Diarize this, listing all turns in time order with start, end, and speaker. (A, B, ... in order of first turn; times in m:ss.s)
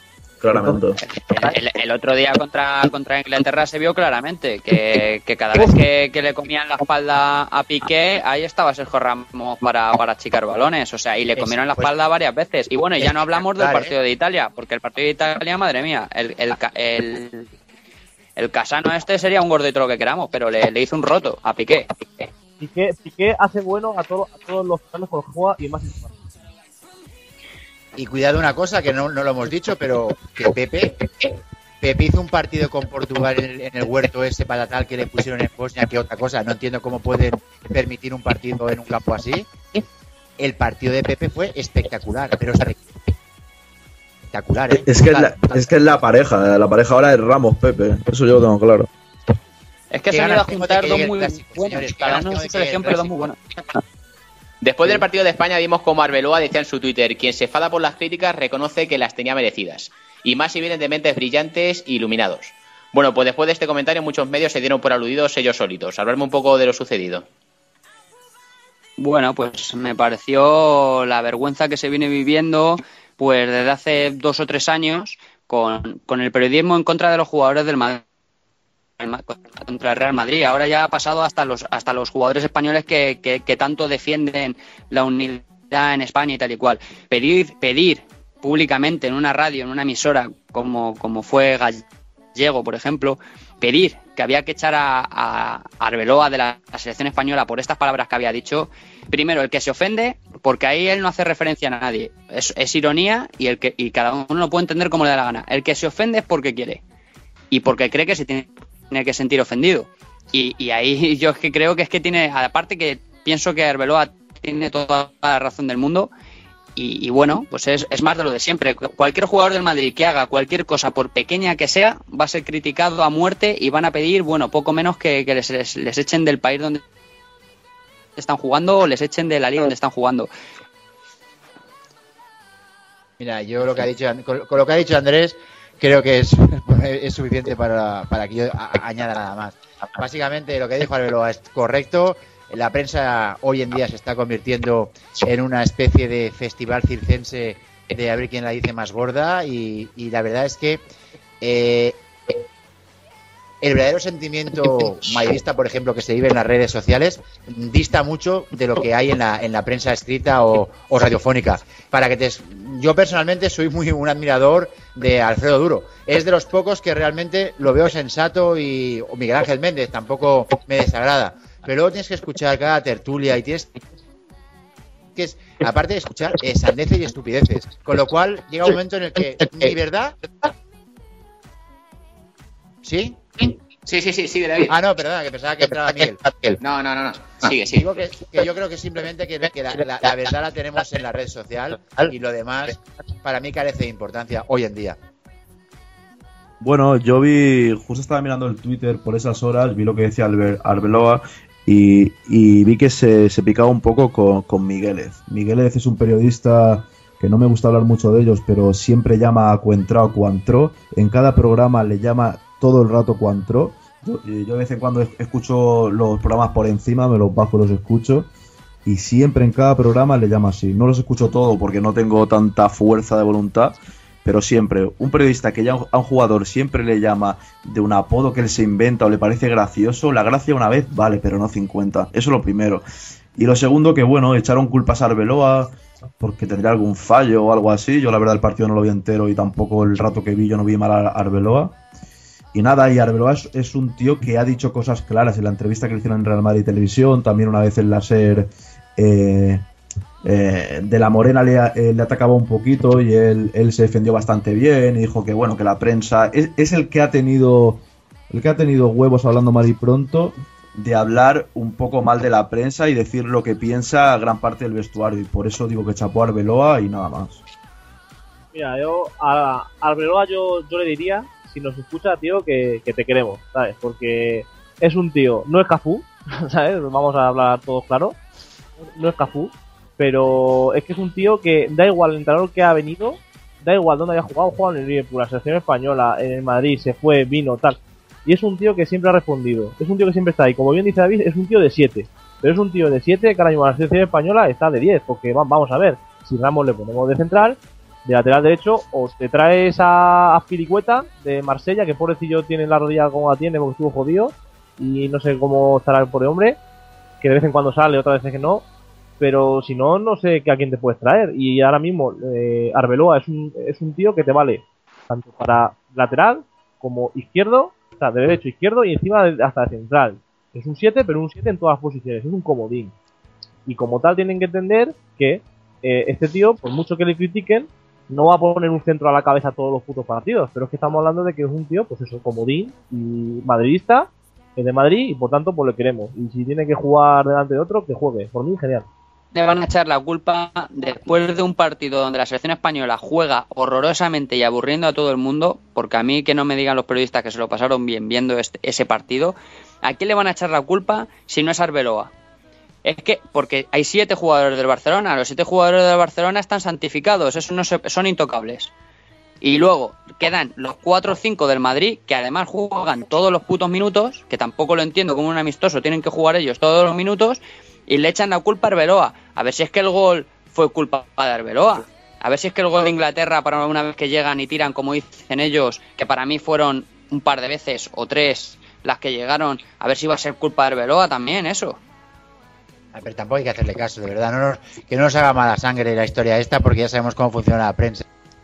0:00.4-0:01.0 A
0:01.0-0:17.5 B
0:11.4-0:11.9 C
0:13.0-0:13.9 C
0:18.4-0:21.9 B
0:22.6-0:26.2 D
0:28.0-0:31.3 C
0:31.8-0:39.5 C
0:40.4-0:43.1 C
0:44.3-0:45.6 C
0:44.7-0:48.9 A
0:49.9-0:53.4 B
0:50.1-0:53.3 C
0:54.6-1:07.3 E
1:09.0-1:18.0 B
1:19.0-1:31.8 B
1:32.4-1:46.8 B
1:47.5-1:56.1 B
1:56.8-2:06.8 B
2:08.2-2:10.3 B
2:13.2-2:30.8 C
2:31.4-2:32.4 C
2:33.6-2:53.7 C
2:55.2-3:00.2 C
3:02.8-3:03.2 C
3:03.9-3:04.8 E
3:04.7-3:06.6 C
3:06.6-3:07.8 E
3:07.7-3:15.0 C
3:16.6-3:38.3 A
3:38.8-3:52.8 A
3:53.4-4:01.8 A
4:02.5-4:09.6 A
4:10.2-4:27.4 A
4:28.5-4:38.2 D
4:38.8-5:06.6 D
5:07.2-5:08.6 D
5:09.2-5:22.9 D
5:23.7-5:38.9 D
5:39.3-5:52.1 B
5:52.8-5:58.7 B
5:59.4-6:21.8 B
6:22.9-6:28.0 C